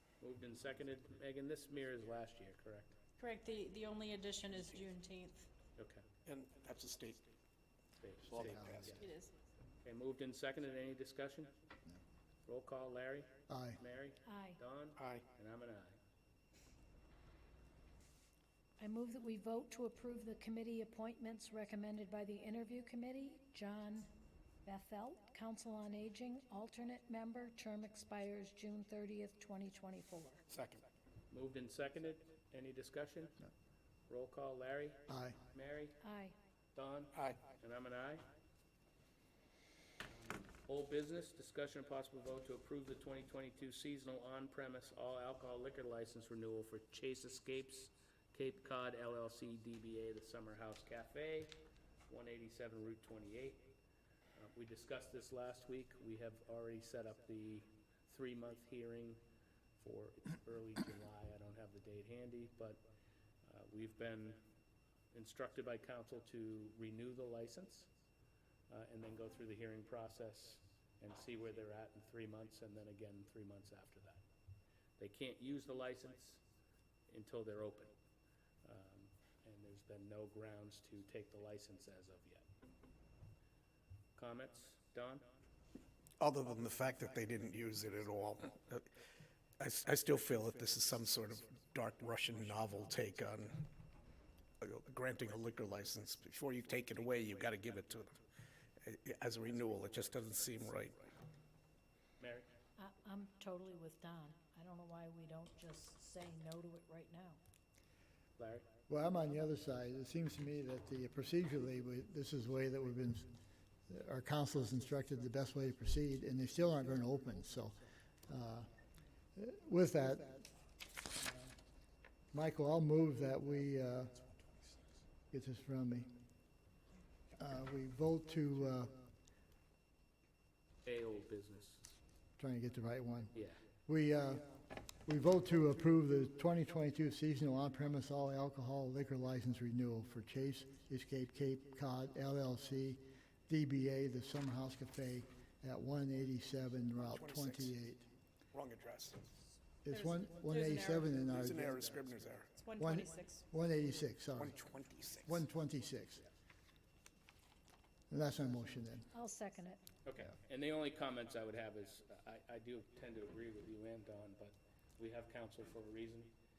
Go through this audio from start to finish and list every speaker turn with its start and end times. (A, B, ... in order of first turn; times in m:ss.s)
0:00.2-0:03.0 A
0:03.2-0:05.5 B
0:05.8-0:06.0 A
0:06.3-0:07.2 C
0:08.0-0:09.1 A
0:08.3-0:09.0 C
0:08.4-0:09.0 D
0:09.0-0:09.3 B
0:09.8-0:11.5 A
0:12.5-0:16.0 A
0:13.5-0:13.8 D
0:14.2-0:14.6 E
0:15.0-0:15.2 C
0:18.8-0:24.1 E
0:24.6-0:30.4 E
0:30.5-0:30.8 C
0:31.3-0:33.4 A
0:34.1-0:36.0 A
0:35.1-0:35.4 D
0:36.0-0:36.4 E
0:36.8-0:38.2 A
0:40.2-0:51.6 A
0:52.1-0:53.7 A
0:54.4-0:59.2 A
0:59.8-1:02.8 A
1:03.5-1:04.4 A
1:05.1-1:07.9 A
1:08.7-1:14.2 A
1:15.0-1:16.4 A
1:17.1-1:17.9 A
1:18.6-1:22.5 A
1:24.2-1:25.2 A
1:26.2-1:28.9 C
1:29.6-1:33.6 C
1:34.6-1:38.2 C
1:38.8-1:41.1 C
1:42.2-1:42.5 A
1:42.8-1:47.4 E
1:48.4-1:48.7 A
1:48.9-1:53.3 D
1:53.9-1:58.7 D
1:59.4-2:00.5 D
2:02.3-2:04.1 D
2:05.3-2:06.1 D
2:07.4-2:09.0 D
2:10.8-2:11.8 A
2:12.4-2:13.3 D
2:13.9-2:14.6 D
2:15.1-2:28.1 D
2:27.0-2:27.8 C
2:28.5-2:29.3 C
2:29.8-2:31.8 D
2:29.9-2:31.2 B
2:31.3-2:32.5 C
2:32.5-2:33.4 B
2:32.8-2:34.6 D
2:34.4-2:35.4 C
2:35.2-2:36.2 D
2:38.1-2:39.1 D
2:39.1-2:39.8 E
2:40.0-2:46.3 A